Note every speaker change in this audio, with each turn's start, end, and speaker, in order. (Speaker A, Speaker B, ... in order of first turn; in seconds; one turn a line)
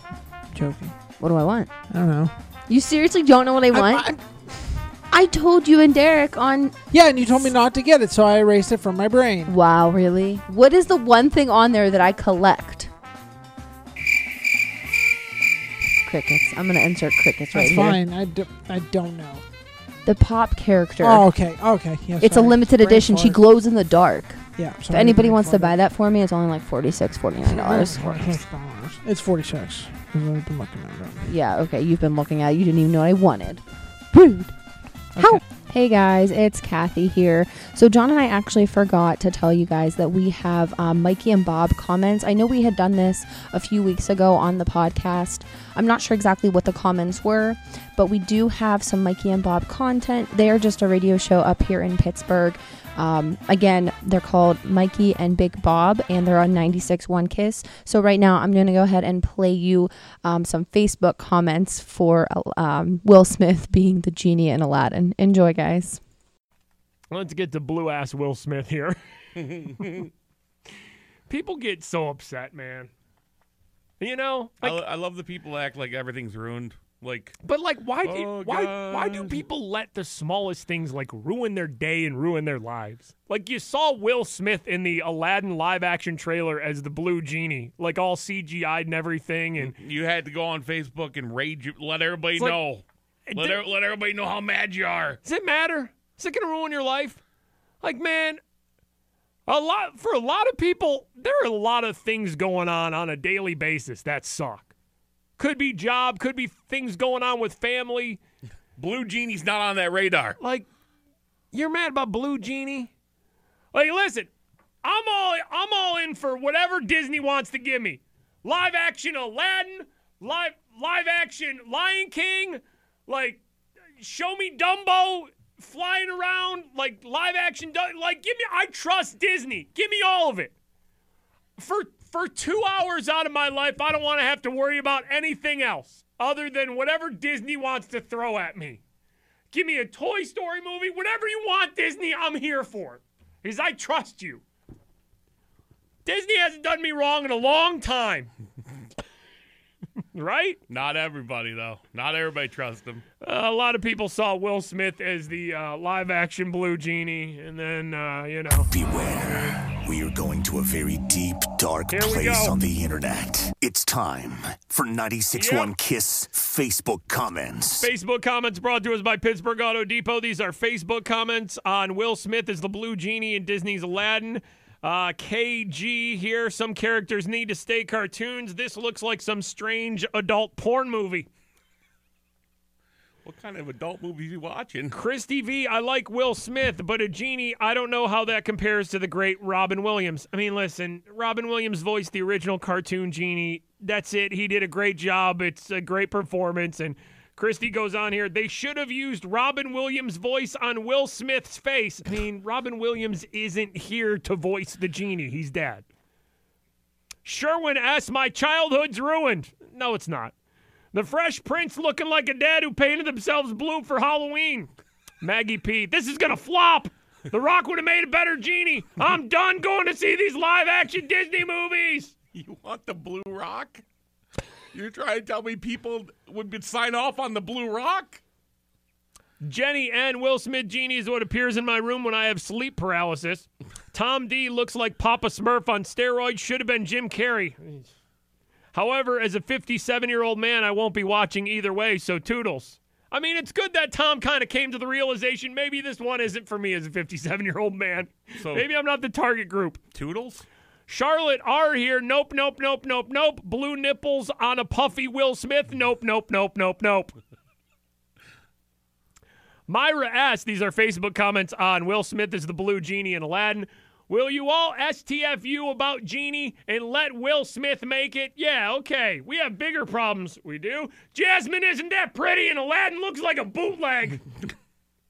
Speaker A: 0.5-0.9
Speaker B: 1.2-1.7
Speaker A: 1.9-2.3
Speaker B: 2.7-4.1
Speaker A: 3.7-4.7
Speaker B: 5.1-6.7
Speaker A: 6.9-9.5
Speaker B: 9.5-12.9
Speaker B: 16.0-18.0
Speaker A: 17.5-19.4
Speaker B: 20.1-21.2
Speaker A: 21.0-23.4
Speaker B: 22.2-28.4
Speaker A: 24.6-25.7
Speaker A: 27.4-31.3
Speaker B: 31.2-34.5
Speaker A: 35.1-35.4
Speaker B: 35.2-66.0
Speaker C: 67.1-69.0
Speaker D: 69.3-70.1
Speaker C: 71.3-72.9
Speaker C: 74.0-74.8
Speaker D: 74.6-77.4
Speaker C: 77.4-89.7
Speaker D: 78.0-79.4
Speaker D: 89.5-95.2
Speaker C: 93.3-93.6
Speaker C: 95.2-97.2
Speaker C: 97.8-98.4
Speaker C: 99.5-104.7
Speaker C: 105.4-108.2
Speaker D: 108.8-110.4
Speaker C: 110.4-110.7
Speaker C: 111.5-112.9
Speaker C: 113.7-114.3
Speaker C: 114.8-123.4
Speaker C: 124.0-130.5
Speaker C: 131.6-138.8
Speaker C: 139.5-144.4
Speaker C: 146.0-148.3
Speaker C: 150.1-150.6
Speaker D: 150.7-153.0
Speaker C: 153.2-158.7
Speaker E: 158.7-167.9
Speaker C: 161.9-162.6
Speaker C: 165.3-165.7
Speaker C: 167.8-181.3
Speaker D: 183.2-185.0
Speaker C: 184.9-205.8
Speaker C: 207.2-210.3
Speaker C: 210.9-214.7
Speaker C: 215.2-222.1
Speaker D: 222.3-223.8
Speaker D: 224.7-228.2
Speaker C: 229.4-237.8
Speaker C: 238.7-249.8
Speaker D: 248.3-248.7
Speaker D: 249.9-250.4
Speaker C: 250.9-257.1
Speaker C: 259.7-274.2